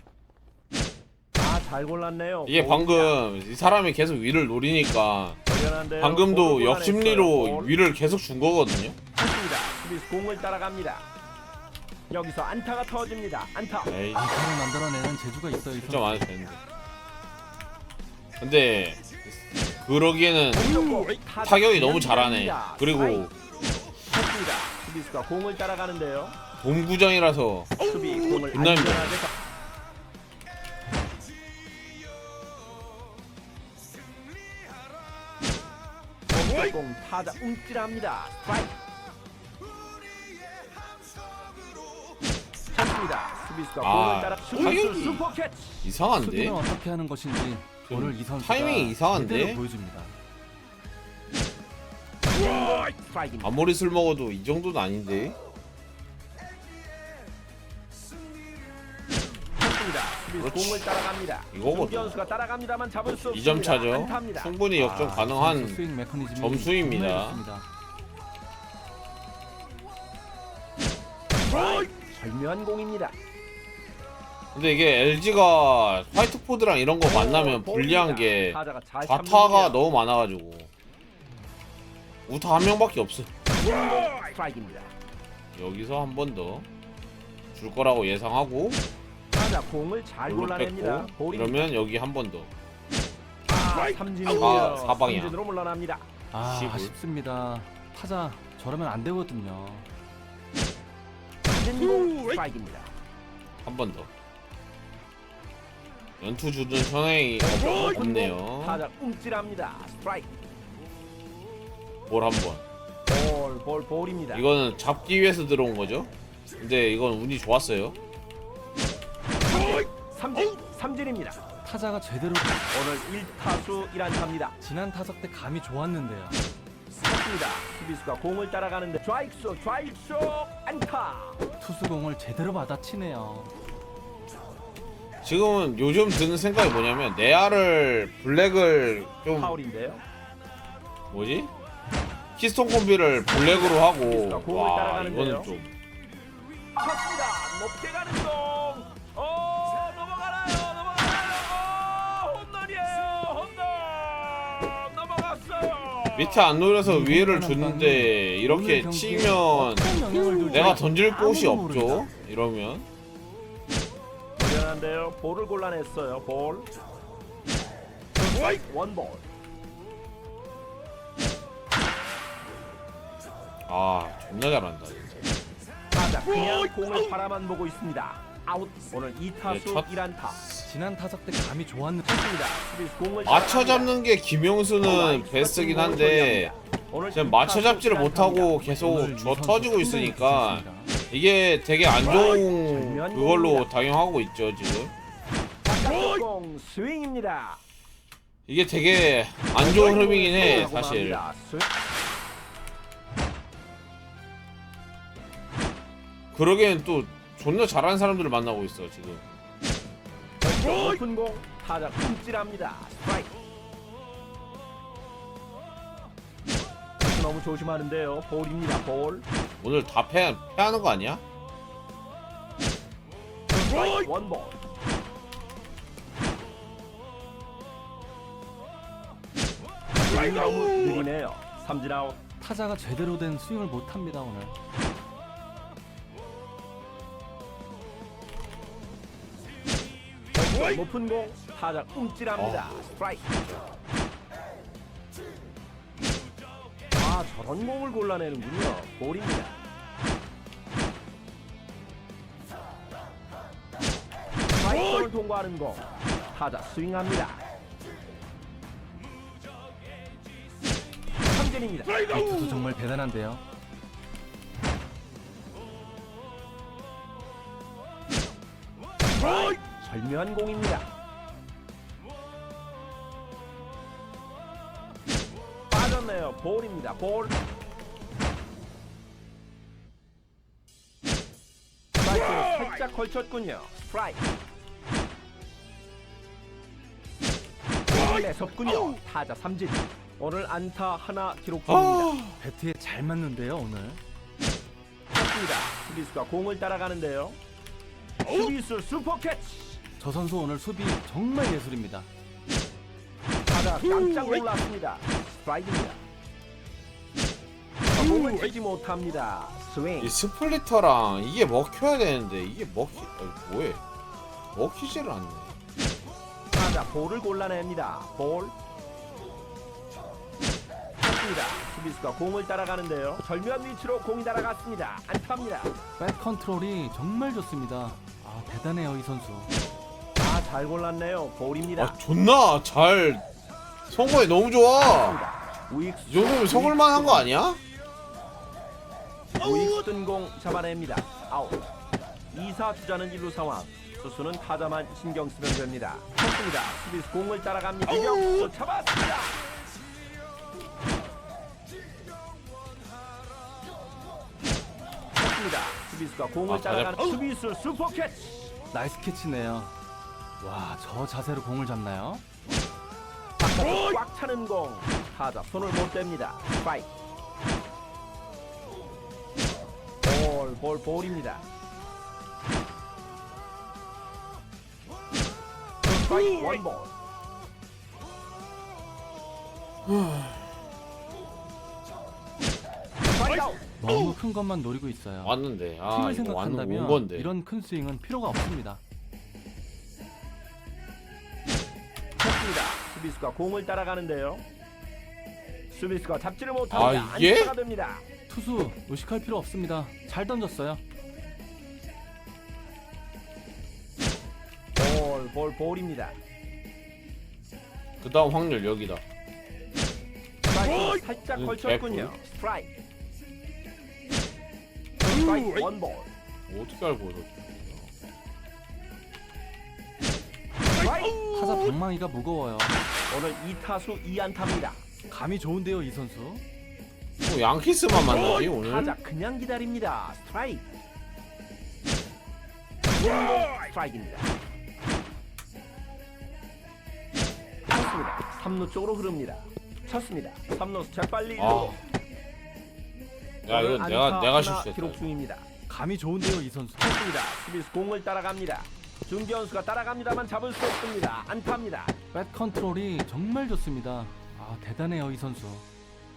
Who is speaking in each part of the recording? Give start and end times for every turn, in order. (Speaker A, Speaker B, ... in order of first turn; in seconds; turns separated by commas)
Speaker A: 1.4-3.2, Speaker B: 2.5-5.4, Speaker A: 5.5-7.7, Speaker B: 6.0-9.0, Speaker A: 9.2-11.0, Speaker A: 12.1-13.9, Speaker B: 13.9-14.3, Speaker C: 14.1-16.2, Speaker B: 15.8-16.6, Speaker B: 18.4-20.8, Speaker A: 20.5-23.2, Speaker B: 21.4-23.3, Speaker A: 24.1-26.4, Speaker B: 26.6-27.8, Speaker A: 27.8-29.3, Speaker B: 28.5-29.2, Speaker A: 36.3-38.7, Speaker A: 42.7-45.8, Speaker B: 43.8-45.2, Speaker B: 45.8-46.6, Speaker C: 46.1-50.1, Speaker B: 47.9-49.6, Speaker A: 52.2-53.5, Speaker B: 53.4-55.4, Speaker A: 59.6-64.5, Speaker B: 60.4-60.8, Speaker B: 61.5-62.2, Speaker B: 63.3-65.8, Speaker C: 64.7-67.7, Speaker B: 66.3-67.4, Speaker A: 71.5-73.1, Speaker B: 74.5-80.7, Speaker A: 77.1-79.8, Speaker B: 82.3-83.3, Speaker A: 83.5-84.9, Speaker B: 85.5-86.7, Speaker B: 87.5-88.8, Speaker A: 89.3-91.7, Speaker B: 90.3-92.5, Speaker A: 93.5-96.1, Speaker B: 94.3-95.3, Speaker C: 96.3-99.9, Speaker B: 96.4-96.9, Speaker A: 101.4-102.9, Speaker B: 103.6-104.1, Speaker B: 106.2-108.8, Speaker A: 107.4-110.3, Speaker B: 112.1-112.6, Speaker A: 113.1-114.5, Speaker B: 114.3-117.9, Speaker A: 119.4-121.4, Speaker C: 121.6-122.7, Speaker A: 122.7-124.6, Speaker C: 124.6-126.4, Speaker A: 127.0-131.4, Speaker C: 131.6-133.5, Speaker B: 135.2-139.5, Speaker A: 139.3-140.0, Speaker B: 141.1-141.5, Speaker B: 142.4-145.7, Speaker A: 143.3-145.5, Speaker A: 146.7-156.5, Speaker B: 156.1-159.9, Speaker C: 156.8-162.1, Speaker B: 160.5-162.8, Speaker A: 164.4-166.7, Speaker A: 168.2-169.2, Speaker B: 173.7-175.3, Speaker A: 175.9-180.4, Speaker B: 179.4-180.7, Speaker C: 180.7-182.1, Speaker A: 182.0-183.9, Speaker B: 183.2-186.5, Speaker A: 184.8-188.6, Speaker B: 187.1-194.9, Speaker C: 188.6-190.9, Speaker A: 192.3-193.7, Speaker A: 195.6-197.6, Speaker B: 198.5-201.2, Speaker A: 199.6-201.7, Speaker B: 206.3-209.2, Speaker A: 210.4-213.3, Speaker A: 217.0-219.2, Speaker B: 219.6-221.2, Speaker A: 223.5-224.6, Speaker A: 229.9-232.2, Speaker C: 232.4-234.5, Speaker A: 240.3-243.3, Speaker B: 242.3-243.6, Speaker A: 246.9-249.5, Speaker A: 254.5-257.4, Speaker A: 261.2-262.1, Speaker C: 262.1-263.4, Speaker A: 269.1-270.9, Speaker A: 275.7-277.4, Speaker A: 282.0-284.2, Speaker A: 287.9-292.1, Speaker B: 291.6-292.4, Speaker C: 292.4-294.0, Speaker A: 295.1-297.4, Speaker A: 298.2-299.8, Speaker C: 300.0-302.1, Speaker A: 303.4-306.0, Speaker A: 307.9-310.1, Speaker B: 310.0-313.8, Speaker B: 314.5-315.6, Speaker A: 316.5-318.5, Speaker A: 321.0-325.7, Speaker C: 326.0-329.5, Speaker A: 330.2-332.0, Speaker B: 331.8-333.2, Speaker B: 333.9-335.2, Speaker A: 334.8-337.3, Speaker B: 336.1-337.6, Speaker A: 339.3-341.6, Speaker A: 342.3-349.4, Speaker A: 355.1-358.5, Speaker B: 356.5-356.9, Speaker C: 358.7-359.8, Speaker C: 360.4-362.2, Speaker A: 363.4-366.9, Speaker A: 370.0-371.4, Speaker A: 375.8-376.9, Speaker B: 379.9-380.4, Speaker A: 383.0-383.6, Speaker C: 383.8-385.4, Speaker B: 385.2-387.3, Speaker C: 385.9-388.8, Speaker A: 392.2-394.4, Speaker A: 395.7-398.0, Speaker B: 396.7-397.5, Speaker C: 398.3-400.8, Speaker A: 404.8-406.2, Speaker B: 408.0-409.0, Speaker A: 410.4-412.7, Speaker B: 411.4-412.1, Speaker A: 415.0-416.1, Speaker B: 416.5-417.9, Speaker A: 420.7-421.2, Speaker C: 421.3-422.8, Speaker A: 423.1-424.8, Speaker C: 425.1-426.4, Speaker B: 427.2-428.9, Speaker A: 427.9-430.7, Speaker A: 432.9-434.3, Speaker A: 437.7-441.8, Speaker B: 441.4-441.8, Speaker B: 443.4-445.1, Speaker A: 443.4-445.5, Speaker C: 445.7-446.9, Speaker A: 446.8-451.9, Speaker C: 452.1-455.6